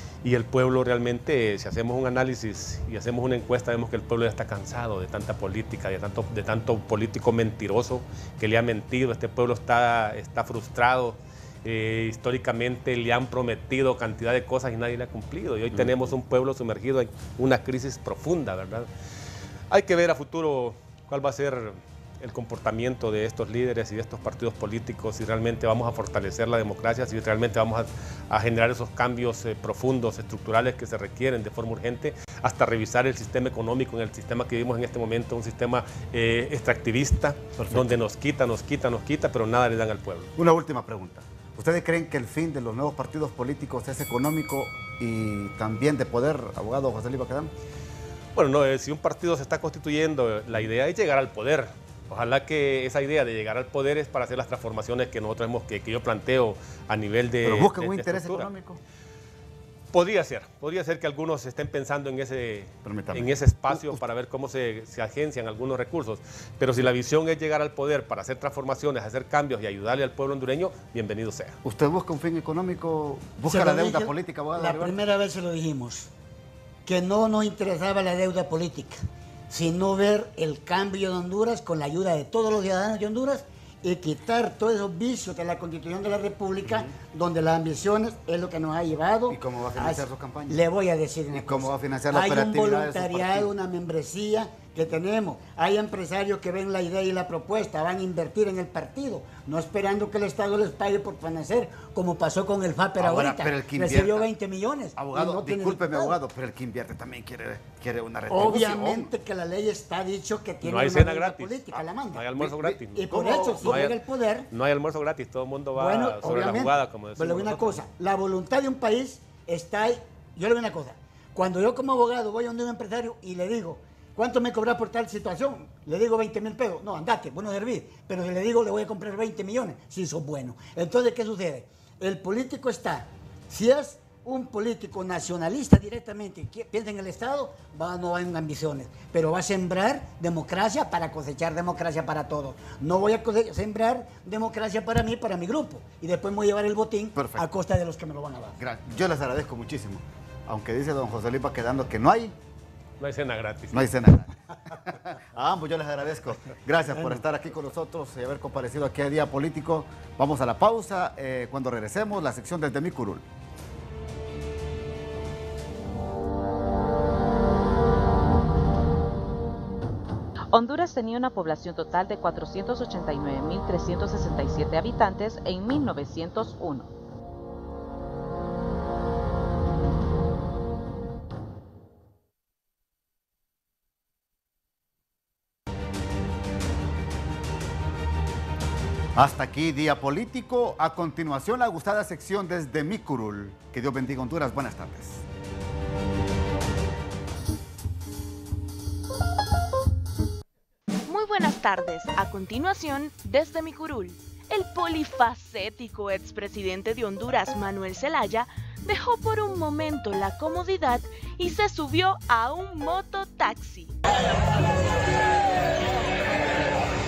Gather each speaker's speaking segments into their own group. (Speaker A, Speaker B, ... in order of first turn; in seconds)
Speaker A: 0.2-18.9, 19.7-40.3, 48.3-58.5, 59.9-71.6, 110.6-114.0, 114.5-117.8, 153.0-153.9
Speaker B: 37.6-38.0, 40.4-47.5, 57.4-58.8, 62.8-64.0, 71.6-75.0, 86.7-86.9, 89.3-90.6, 91.3-93.5, 103.0-104.3, 105.0-109.1, 112.3-113.9, 147.2-147.5, 148.6-152.3, 153.7-163.2, 189.2-195.2
Speaker C: 73.5-76.1, 76.8-106.2, 108.3-114.5, 115.8-148.6
Speaker D: 170.5-176.9
Speaker E: 201.1-214.0